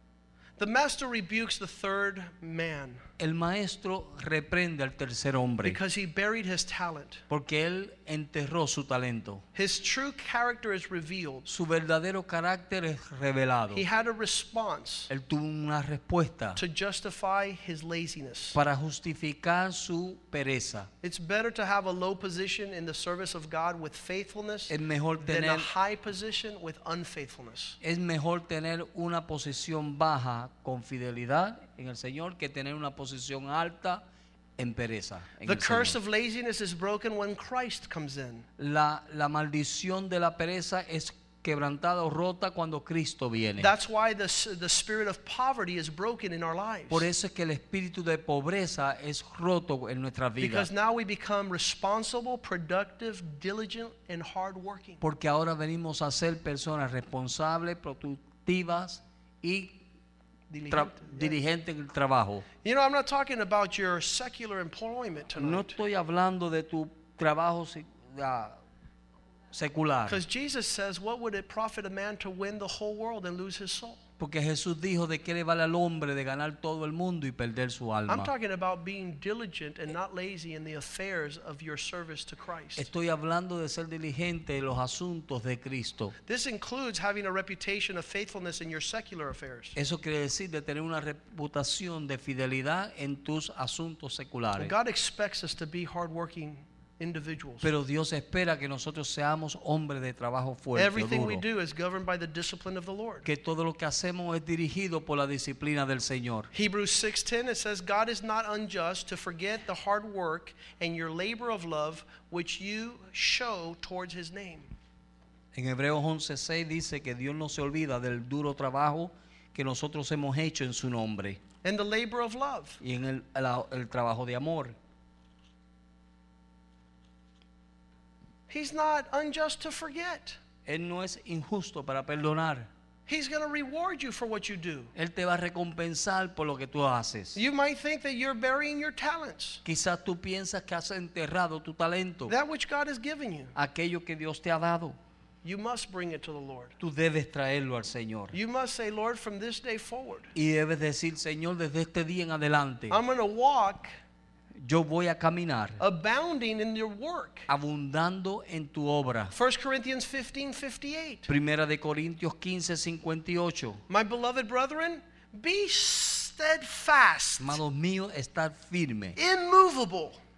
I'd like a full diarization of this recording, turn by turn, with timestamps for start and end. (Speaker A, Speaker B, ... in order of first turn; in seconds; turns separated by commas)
Speaker A: 0.6-3.0, Speaker B: 3.2-5.8, Speaker A: 5.6-7.2, Speaker B: 7.3-9.4, Speaker A: 9.5-11.5, Speaker B: 11.5-13.8, Speaker A: 13.7-15.1, Speaker B: 15.1-16.6, Speaker A: 16.6-18.6, Speaker B: 18.5-20.9, Speaker A: 21.0-27.8, Speaker B: 24.7-25.7, Speaker B: 27.8-34.0, Speaker B: 34.6-36.0, Speaker A: 35.4-38.4, Speaker B: 38.6-43.7, Speaker A: 43.6-47.1, Speaker B: 46.9-50.7, Speaker A: 50.4-55.0, Speaker B: 55.0-59.8, Speaker A: 60.5-61.4, Speaker B: 60.7-62.5, Speaker A: 62.6-65.8, Speaker B: 65.4-68.6, Speaker B: 69.5-70.2, Speaker A: 70.1-74.0, Speaker B: 74.2-78.3, Speaker A: 78.1-82.9, Speaker B: 82.8-86.1, Speaker A: 86.3-89.7, Speaker B: 89.8-94.7, Speaker A: 94.6-97.7, Speaker B: 97.6-101.4, Speaker A: 100.7-103.2, Speaker B: 103.2-106.5, Speaker A: 106.5-114.7, Speaker B: 115.5-121.4, Speaker A: 121.6-122.8, Speaker B: 122.8-124.8, Speaker A: 128.5-130.4, Speaker B: 130.7-132.7, Speaker A: 133.1-134.9, Speaker B: 134.9-137.4, Speaker A: 137.3-139.6, Speaker B: 139.6-142.3, Speaker A: 142.3-143.5, Speaker B: 143.5-144.9, Speaker A: 145.4-146.7, Speaker B: 146.8-148.3, Speaker A: 148.3-150.3, Speaker B: 150.3-153.0, Speaker A: 152.9-153.9, Speaker B: 154.6-155.8, Speaker A: 155.8-157.5, Speaker B: 157.5-159.3, Speaker A: 159.3-161.3, Speaker B: 161.3-163.8, Speaker A: 163.9-167.6, Speaker B: 167.4-169.2, Speaker A: 169.2-170.2